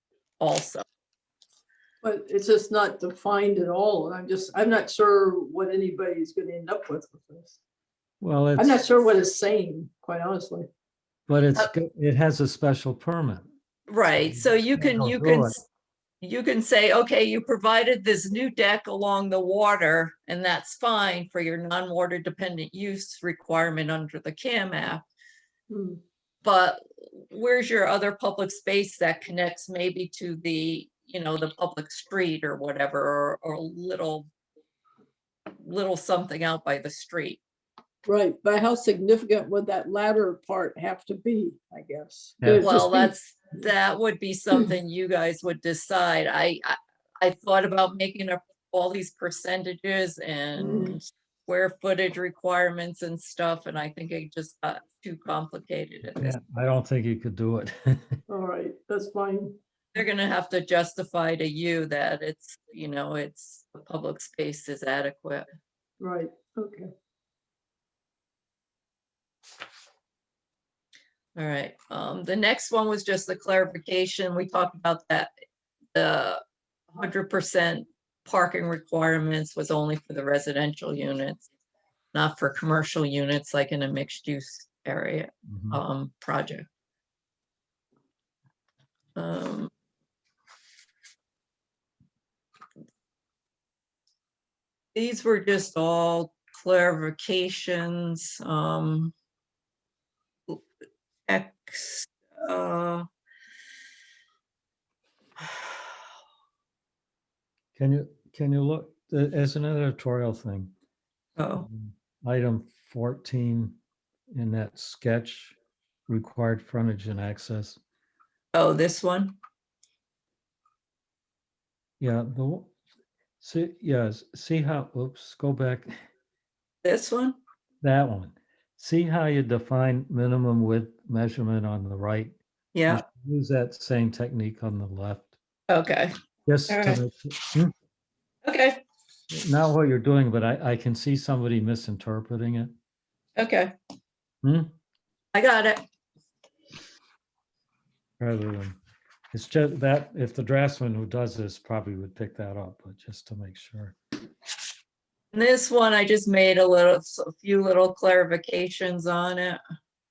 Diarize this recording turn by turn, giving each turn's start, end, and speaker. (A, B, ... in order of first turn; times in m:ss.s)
0:00.4-0:00.8 A
0:02.0-0:07.6 B
0:08.2-0:08.8 C
0:08.6-0:10.7 B
0:11.3-0:13.4 C
0:13.9-0:15.6 A
0:14.2-0:15.6 C
0:16.2-0:25.0 A
0:25.7-0:26.0 B
0:26.4-0:34.3 A
0:35.5-0:37.4 A
0:38.0-0:43.1 B
0:42.4-0:42.9 C
0:42.6-0:56.4 A
0:50.6-0:51.0 B
0:56.1-0:58.2 C
0:58.3-0:59.6 B
0:59.9-1:05.4 A
1:06.0-1:06.9 B
1:11.4-1:15.3 A
1:15.9-1:16.4 A
1:16.9-1:21.4 A
1:22.1-1:26.6 A
1:25.5-1:25.8 C
1:29.2-1:29.7 A
1:34.9-1:39.1 A
1:41.3-1:43.1 A
1:47.8-1:50.7 C
1:51.4-1:51.7 A
1:51.5-1:53.8 C
1:54.3-1:55.6 C
1:56.1-1:57.8 C
1:58.5-1:59.4 A
2:02.0-2:02.7 C
2:03.4-2:05.9 C
2:06.8-2:07.4 A
2:07.8-2:12.4 C
2:12.7-2:13.0 A
2:12.9-2:15.4 C
2:15.7-2:16.1 A
2:16.4-2:17.7 C
2:16.7-2:17.0 A
2:18.4-2:18.8 A
2:19.3-2:22.7 C
2:23.4-2:23.7 A
2:24.4-2:24.7 C
2:25.3-2:25.8 A
2:28.2-2:28.8 C
2:29.3-2:34.0 C
2:35.3-2:39.6 A